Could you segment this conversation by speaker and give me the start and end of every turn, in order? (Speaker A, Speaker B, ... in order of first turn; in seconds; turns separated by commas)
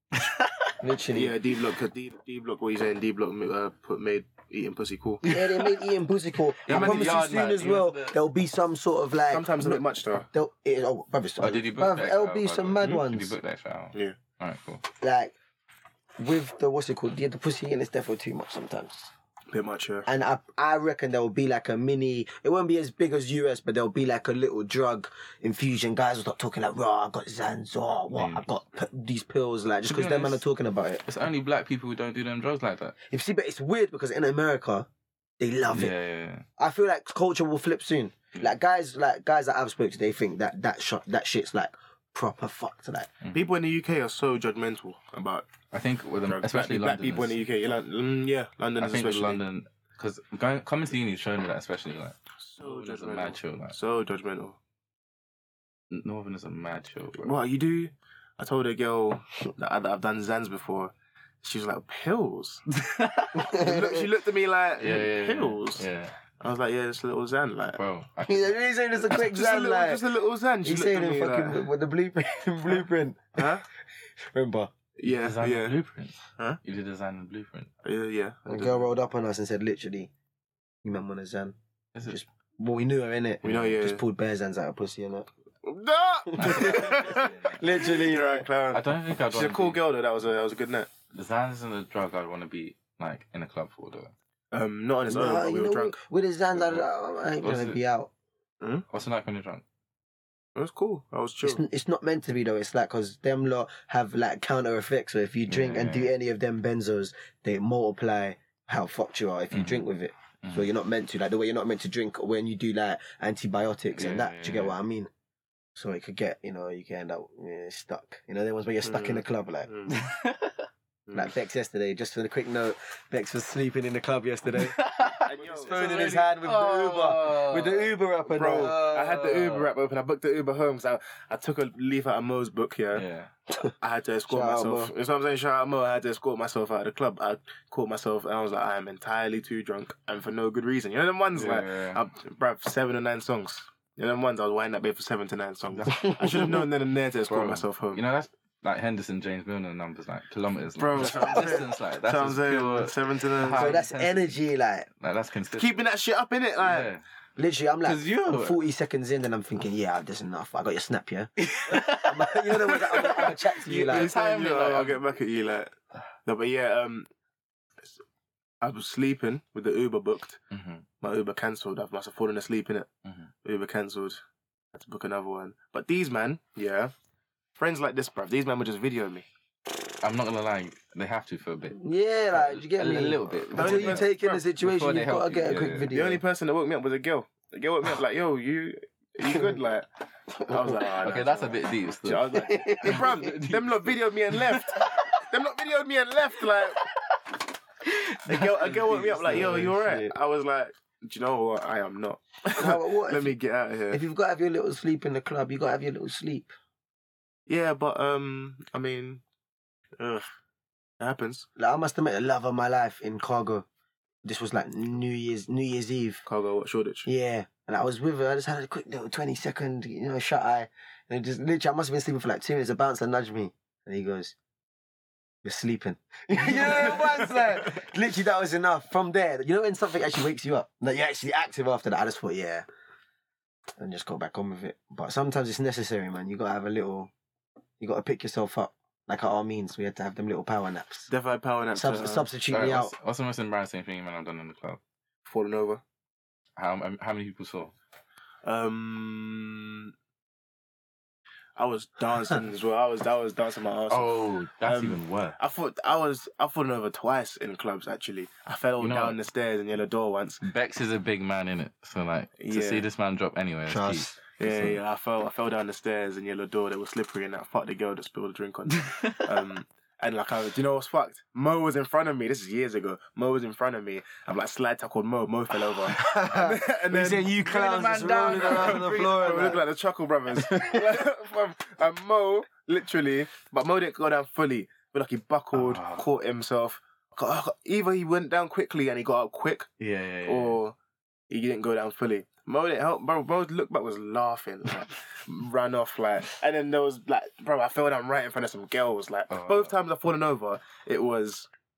Speaker A: 0.1-0.8, Speaker B: 0.8-1.4, Speaker C: 1.1-5.3, Speaker A: 5.2-5.8, Speaker B: 5.2-13.4, Speaker A: 6.6-8.2, Speaker C: 6.7-7.2, Speaker C: 9.3-10.3, Speaker A: 11.4-14.8, Speaker B: 15.0-15.3, Speaker B: 16.2-19.1, Speaker C: 19.5-20.1, Speaker B: 20.1-31.0, Speaker A: 28.1-28.5, Speaker A: 29.9-30.4, Speaker A: 31.0-33.0, Speaker B: 33.1-34.9, Speaker B: 35.4-35.9, Speaker A: 35.7-36.5, Speaker B: 36.6-43.1, Speaker A: 43.2-43.5, Speaker C: 43.3-45.5, Speaker A: 45.7-47.4, Speaker C: 46.2-49.4, Speaker A: 48.8-53.8, Speaker C: 52.4-54.6, Speaker A: 55.9-57.4, Speaker C: 57.2-62.6, Speaker A: 62.7-63.5, Speaker B: 63.3-64.1, Speaker C: 63.5-65.9, Speaker A: 64.8-66.2, Speaker C: 66.4-67.8, Speaker A: 67.7-68.5, Speaker B: 68.3-70.0, Speaker C: 69.1-71.6, Speaker B: 70.6-73.6, Speaker C: 73.4-73.6, Speaker B: 74.2-74.7, Speaker C: 75.0-75.8, Speaker A: 75.1-77.7, Speaker C: 77.8-78.9, Speaker B: 78.5-80.1, Speaker B: 80.8-81.6, Speaker A: 81.9-82.2, Speaker B: 82.1-85.3, Speaker A: 83.4-83.8, Speaker C: 83.4-84.0, Speaker C: 85.6-90.9, Speaker B: 86.3-88.5, Speaker A: 86.4-87.8, Speaker A: 88.7-89.8, Speaker A: 91.1-94.1, Speaker C: 94.5-96.0, Speaker B: 95.1-98.1, Speaker A: 97.4-97.8, Speaker A: 98.9-99.6, Speaker C: 100.6-101.6, Speaker B: 101.4-115.1, Speaker A: 105.5-106.1, Speaker A: 109.5-109.9, Speaker A: 114.0-114.8, Speaker B: 115.8-119.7, Speaker C: 118.8-119.9, Speaker A: 119.9-120.7, Speaker C: 121.1-121.3, Speaker B: 121.1-124.8, Speaker A: 124.6-127.9, Speaker C: 125.3-126.3, Speaker B: 125.4-128.8, Speaker C: 128.3-133.1, Speaker A: 128.5-129.7, Speaker A: 132.9-133.3, Speaker C: 133.8-148.0, Speaker B: 134.3-134.9, Speaker A: 141.3-142.0, Speaker B: 145.9-146.7, Speaker A: 147.3-154.4, Speaker C: 150.8-153.8, Speaker B: 151.1-151.6, Speaker B: 153.5-154.9, Speaker A: 155.0-155.8, Speaker C: 155.6-156.9, Speaker A: 156.6-157.0, Speaker B: 157.4-164.1, Speaker A: 157.8-158.6, Speaker A: 161.4-165.0, Speaker C: 163.6-165.7, Speaker C: 166.2-167.1, Speaker C: 168.6-170.4, Speaker A: 170.5-170.9, Speaker C: 171.0-172.9, Speaker A: 173.1-173.3, Speaker C: 173.4-174.2, Speaker C: 174.7-176.9, Speaker C: 177.6-179.3, Speaker A: 180.0-181.8, Speaker B: 181.8-186.2, Speaker A: 182.3-185.9, Speaker C: 183.5-184.4, Speaker C: 185.9-189.9, Speaker C: 190.5-196.8, Speaker B: 190.5-190.9, Speaker A: 191.0-195.3, Speaker B: 192.3-193.3, Speaker A: 196.8-197.2, Speaker A: 197.8-199.8, Speaker C: 198.3-204.0, Speaker B: 198.9-200.1, Speaker B: 202.6-203.3, Speaker B: 203.9-206.5, Speaker C: 207.5-209.2, Speaker C: 210.0-210.3, Speaker C: 211.0-211.5, Speaker B: 211.6-213.7, Speaker B: 214.2-216.2, Speaker C: 216.3-217.1, Speaker B: 217.1-224.3, Speaker B: 225.4-232.6, Speaker B: 233.8-237.1, Speaker B: 237.8-241.1, Speaker C: 241.1-242.3, Speaker B: 241.8-242.9, Speaker A: 242.5-244.8, Speaker C: 245.2-245.8, Speaker A: 246.6-247.7, Speaker C: 248.4-249.9, Speaker C: 251.6-260.4, Speaker A: 253.9-255.4, Speaker A: 258.8-259.2, Speaker A: 260.4-264.8, Speaker C: 262.4-262.8, Speaker B: 263.7-264.2, Speaker C: 264.4-289.7, Speaker A: 268.7-269.3, Speaker B: 275.9-279.6, Speaker A: 278.3-279.2, Speaker B: 280.4-281.0, Speaker A: 285.5-286.1, Speaker A: 289.8-290.6, Speaker C: 290.3-290.8, Speaker C: 291.3-301.5, Speaker A: 299.3-299.7